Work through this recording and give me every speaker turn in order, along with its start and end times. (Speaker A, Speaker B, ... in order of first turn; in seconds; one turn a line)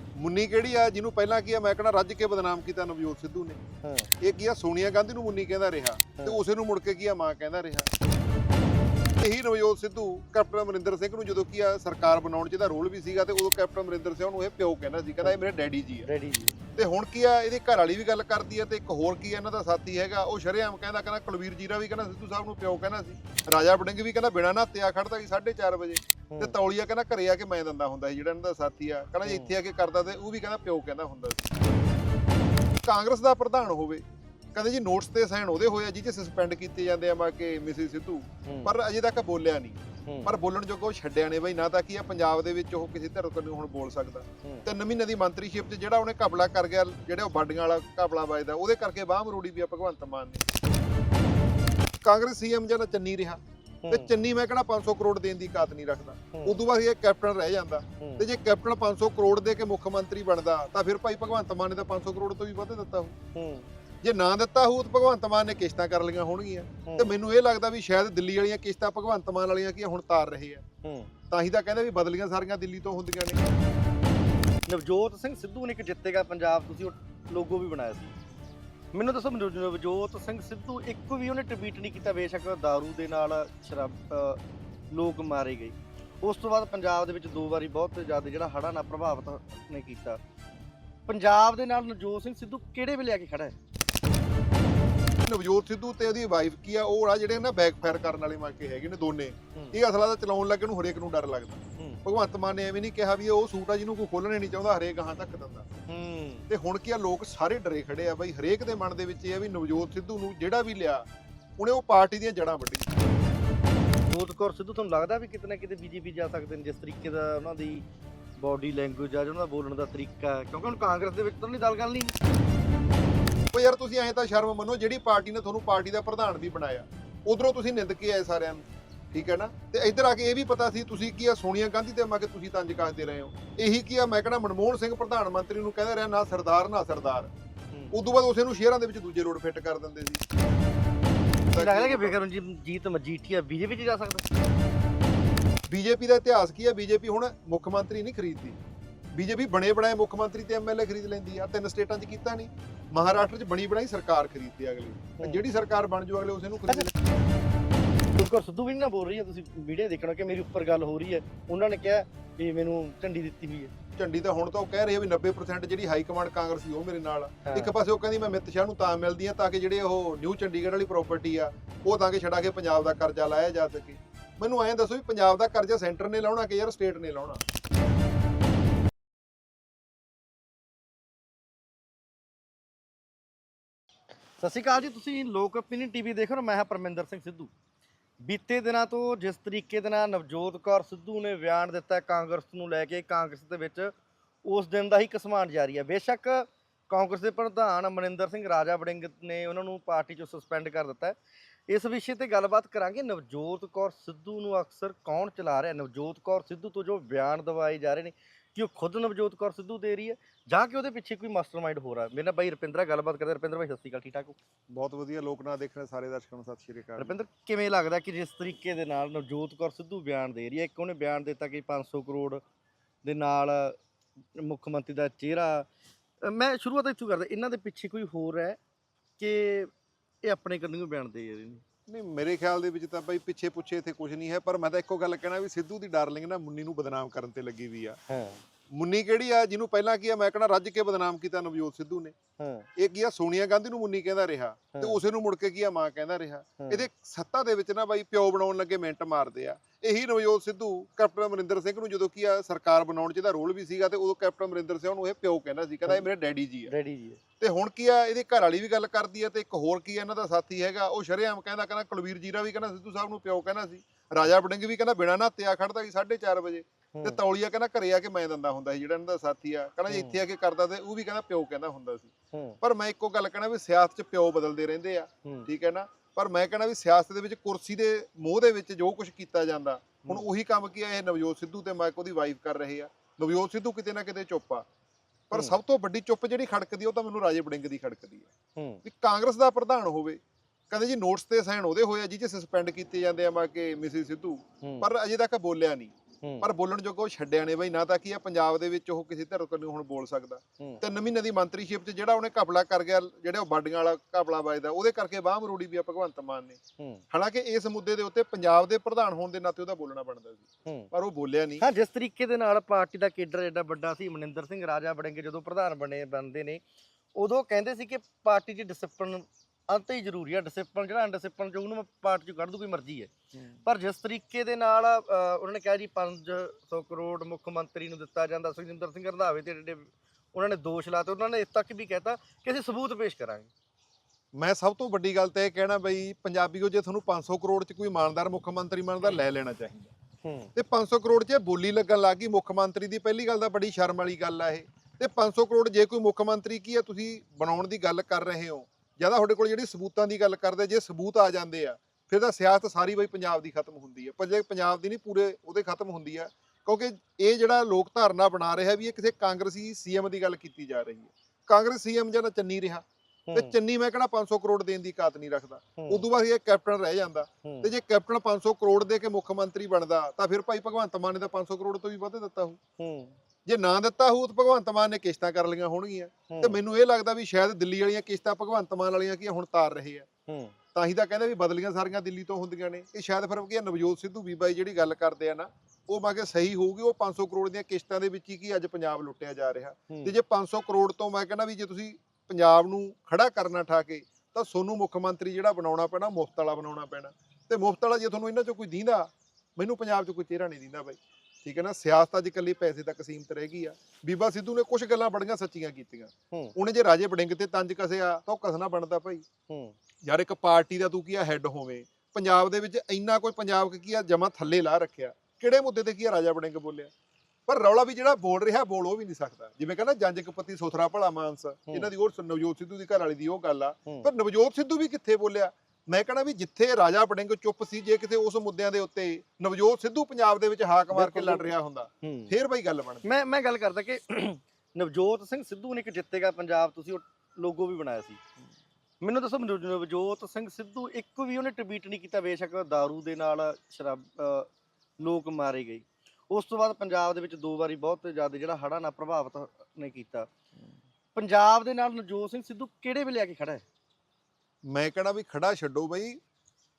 Speaker A: 0.2-3.6
Speaker B: 3.8-4.1
Speaker A: 4.2-7.9
Speaker A: 9.2-16.1
Speaker B: 16.1-16.6
Speaker A: 16.8-31.5
Speaker B: 29.2-29.5
Speaker A: 32.9-34.0
Speaker A: 34.5-50.5
Speaker B: 38.5-38.7
Speaker B: 40.1-40.3
Speaker A: 52.0-63.2
Speaker B: 53.8-54.1
Speaker B: 56.3-56.6
Speaker B: 58.0-58.3
Speaker B: 63.4-63.7
Speaker A: 64.0-70.7
Speaker B: 66.9-67.1
Speaker B: 70.8-71.1
Speaker A: 71.3-73.4
Speaker B: 74.7-78.1
Speaker B: 78.9-90.2
Speaker B: 91.1-93.6
Speaker A: 95.2-105.7
Speaker B: 105.9-106.5
Speaker A: 106.5-111.1
Speaker A: 111.6-113.0
Speaker B: 114.1-117.9
Speaker B: 118.4-122.1
Speaker A: 123.5-137.3
Speaker A: 137.9-140.2
Speaker A: 141.5-142.2
Speaker B: 141.5-144.2
Speaker A: 145.7-148.6
Speaker A: 149.1-156.9
Speaker B: 158.2-163.7
Speaker A: 164.0-177.4
Speaker B: 167.4-167.7
Speaker B: 184.4-187.5
Speaker B: 188.2-193.9
Speaker B: 194.4-201.2
Speaker B: 201.7-214.4
Speaker A: 214.7-217.2
Speaker B: 217.0-222.4
Speaker B: 223.0-223.8
Speaker B: 224.3-225.7
Speaker B: 226.2-228.6
Speaker B: 229.2-229.7
Speaker B: 230.2-231.6
Speaker A: 231.9-238.0
Speaker B: 238.1-238.4
Speaker A: 238.7-242.2
Speaker B: 242.4-242.7
Speaker A: 242.8-256.7
Speaker B: 246.6-246.9
Speaker B: 256.7-257.2
Speaker A: 257.4-284.7
Speaker B: 266.9-267.2
Speaker B: 269.9-270.2
Speaker B: 272.3-272.6
Speaker A: 285.3-288.3
Speaker B: 288.6-288.8
Speaker A: 288.8-306.6
Speaker B: 294.6-294.9
Speaker B: 296.2-296.5
Speaker B: 306.8-307.0
Speaker A: 307.1-311.7
Speaker B: 310.6-310.9
Speaker B: 311.6-316.6
Speaker B: 317.1-333.5
Speaker A: 334.4-339.9
Speaker B: 340.2-340.5
Speaker A: 340.6-372.6
Speaker B: 363.3-363.6
Speaker B: 365.8-366.0
Speaker B: 367.4-367.7
Speaker B: 372.8-373.1
Speaker A: 373.5-380.1
Speaker B: 376.3-376.6
Speaker B: 380.3-380.6
Speaker A: 380.7-409.2
Speaker B: 409.5-409.8
Speaker A: 410.1-416.9
Speaker A: 417.5-433.1
Speaker B: 430.9-431.5
Speaker B: 432.0-432.3
Speaker B: 433.0-438.2
Speaker B: 439.0-444.5
Speaker B: 445.0-450.3
Speaker B: 451.1-453.6
Speaker A: 454.7-456.2